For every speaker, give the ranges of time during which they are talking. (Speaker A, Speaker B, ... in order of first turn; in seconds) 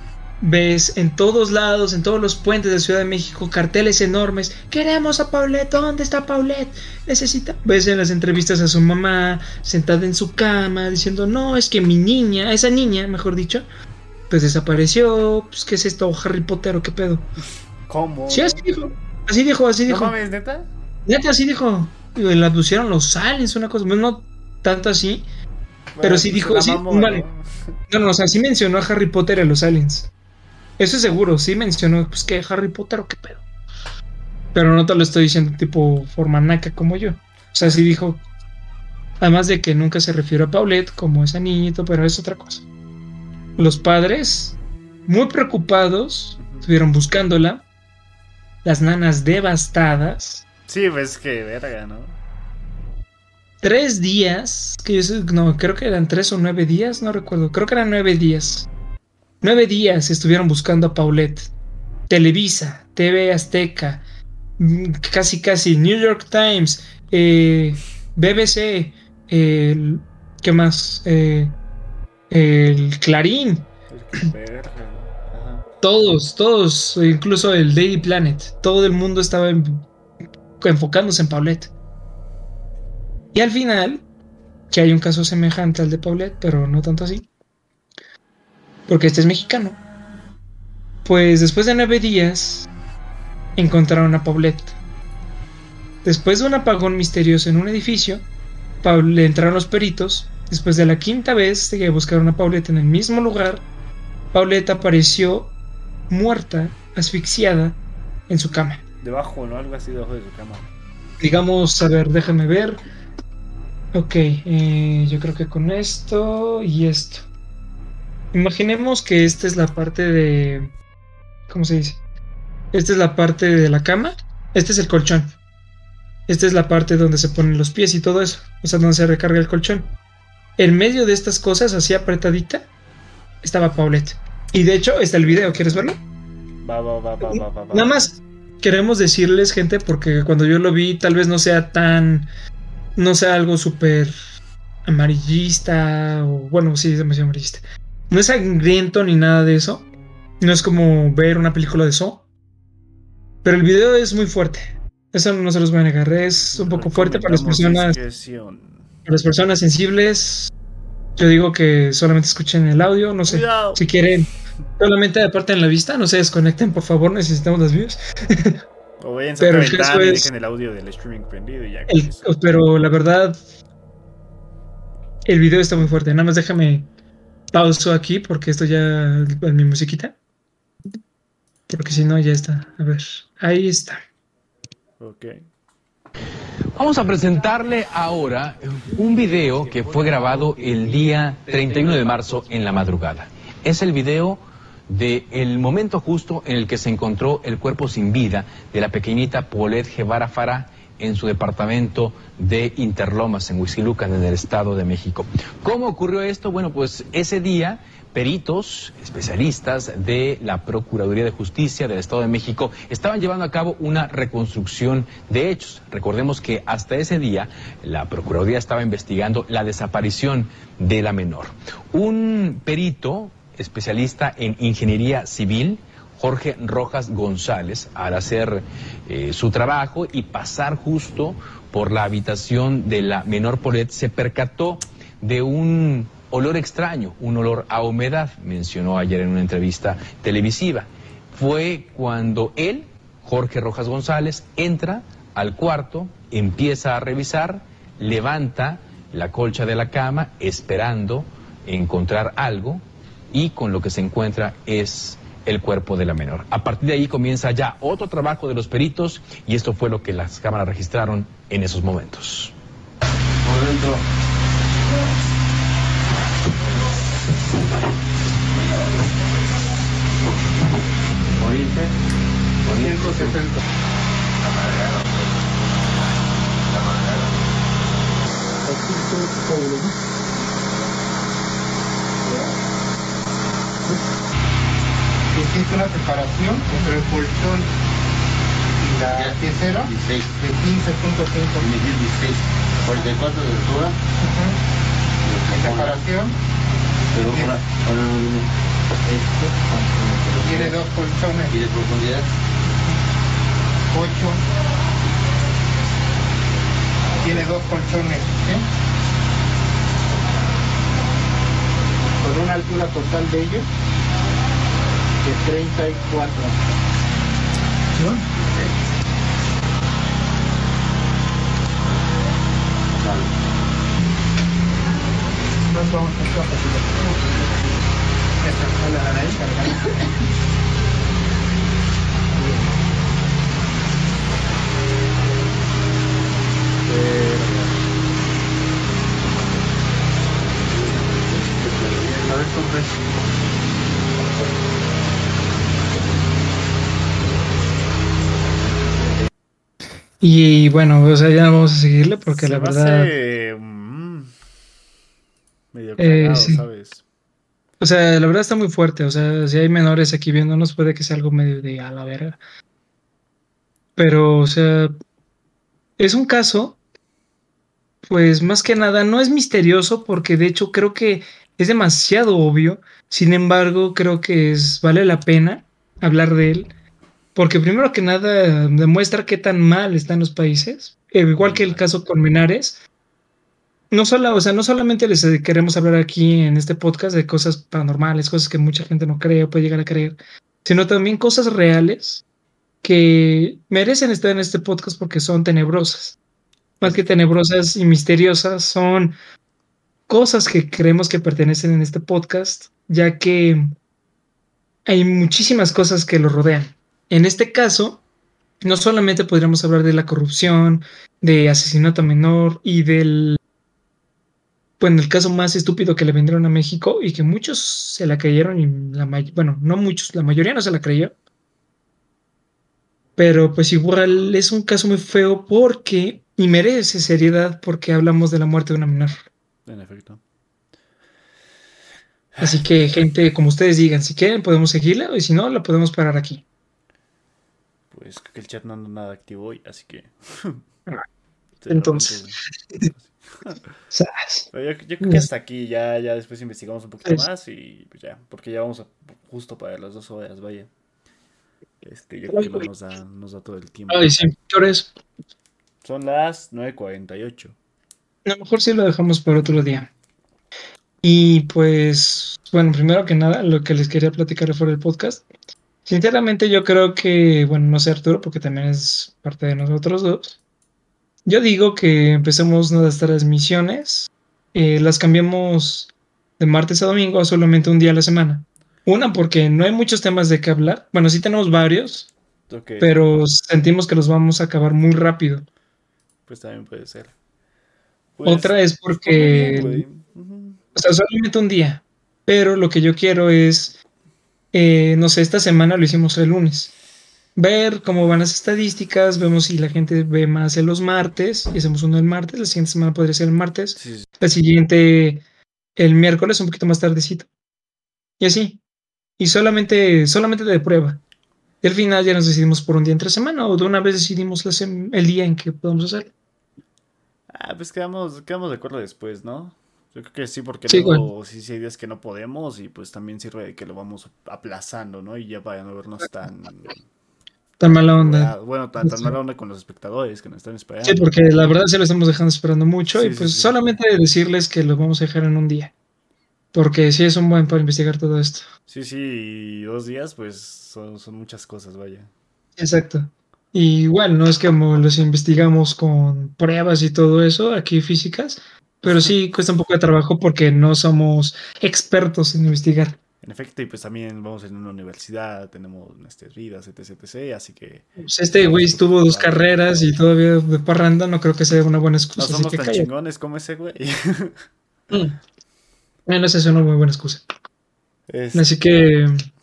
Speaker A: 0.4-13.7, 14.3-17.3, 18.3-20.1, 21.1-25.2, 26.0-27.2, 27.9-30.1, 30.8-33.4, 34.5-38.2, 39.2-42.6, 43.6-47.6, 48.6-50.4, 53.6-58.7, 59.4-61.5, 62.1-64.0, 64.6-71.5, 72.3-73.7, 75.8-79.8, 80.6-81.7, 83.3-84.0, 84.7-87.3, 88.9-89.8, 91.0-92.7, 93.5-94.7, 96.0-98.2, 98.8-103.6, 104.3-105.5, 106.1-108.8, 111.2-112.8, 113.9-117.2, 118.3-120.7, 121.5-122.0, 122.7-125.3, 126.3-129.9, 130.6-132.7, 133.4-136.0, 137.2-142.3, 142.9-144.1, 144.8-149.9, 150.4-152.2, 153.4-158.0, 159.1-160.5, 161.2-164.3, 164.8-168.6, 169.4-170.3, 171.9-173.4, 175.2-176.9, 177.5-180.2, 181.7-184.0, 350.2-353.1, 356.0-356.6, 357.8-362.4, 363.9-364.9, 366.0-366.8, 368.0-376.7, 377.3-382.8, 383.9-392.2, 392.8-396.2, 396.8-399.1, 400.1-403.7, 404.9-408.0, 408.6-413.4, 414.8-421.1, 423.1-429.2, 432.4-436.4, 441.7-442.2, 443.9-444.5, 445.0-445.3, 452.3-452.7, 453.9-454.9, 458.2-459.9, 461.0-465.2, 465.9-470.4, 471.2-482.1, 482.8-485.4, 488.2-489.9, 490.8-493.8, 494.5-496.7, 497.4-505.2, 505.8-507.3, 508.2-508.6, 509.2-511.0, 511.6-516.1, 520.7-521.0, 527.6-529.1, 530.8-535.7, 536.5-538.5, 542.6-553.0, 558.0-562.9, 564.9-565.2, 566.1-567.2, 568.3-569.1
Speaker B: 17.9-18.7, 19.9-20.7, 25.9-27.7, 46.4-46.7, 50.7-52.2, 73.9-75.7, 109.0-110.7, 136.6-138.1, 156.5-158.9, 163.2-163.8, 169.0-172.3, 185.0-185.4, 336.8-337.7, 352.3-354.3, 355.7-357.0, 381.4-381.9, 396.8-397.1, 429.6-430.2, 432.4-432.6, 437.9-440.6, 441.6-442.4, 442.9-443.5, 444.5-450.7, 451.8-454.1, 455.8-457.6, 482.5-483.0, 486.3-487.1, 488.2-490.6, 503.8-504.1, 517.3-526.8, 527.6-531.2, 532.9-533.6, 538.7-542.1, 548.8-549.1, 553.2-559.5, 562.2-564.4, 568.1-568.6
Speaker C: 186.7-262.5
Speaker D: 263.4-264.0, 271.4-271.9, 272.6-273.6, 276.7-277.2, 289.0-290.3, 291.6-293.9, 295.2-296.0, 297.1-298.5, 299.0-300.8, 301.5-302.3, 323.0-323.3, 340.7-343.2, 343.9-344.6
Speaker E: 272.7-273.5, 278.6-279.9, 282.2-282.5, 285.3-287.7, 288.7-291.7, 294.2-294.6, 295.4-296.4, 297.1-297.6, 300.3-301.6, 303.9-304.4, 307.1-308.7, 312.2-313.7, 315.2-316.6, 318.0-318.7, 325.6-327.7, 328.4-330.0, 332.3-332.6